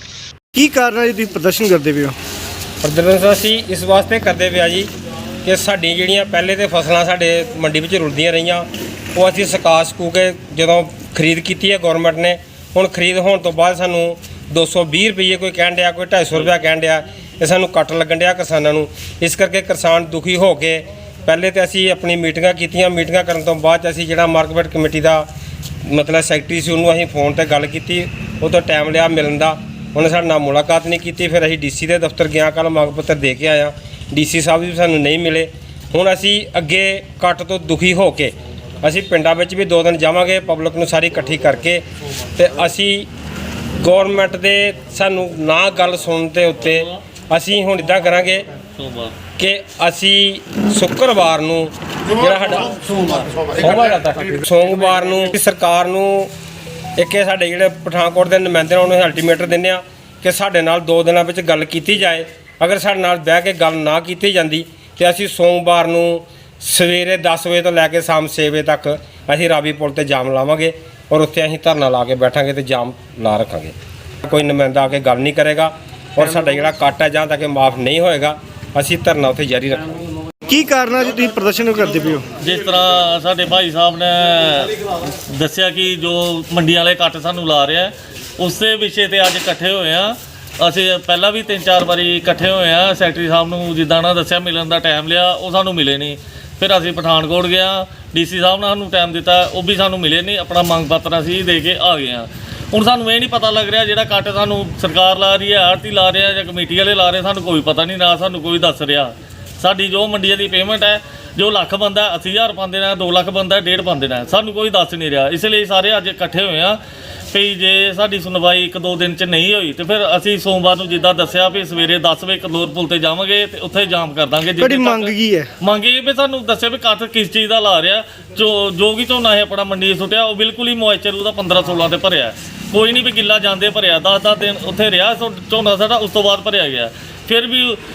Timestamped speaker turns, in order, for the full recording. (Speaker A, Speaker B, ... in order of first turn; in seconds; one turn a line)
Speaker A: 0.5-2.2
Speaker B: 2.8-4.9
Speaker B: 5.4-25.2
Speaker B: 25.8-41.8
Speaker B: 42.3-43.1
Speaker B: 43.8-48.4
Speaker C: 48.8-49.2
Speaker B: 49.4-56.3
Speaker B: 57.0-73.7
Speaker B: 74.2-79.9
Speaker A: 80.5-82.2
Speaker C: 82.4-116.8
Speaker C: 117.3-137.8
Speaker A: 124.6-125.5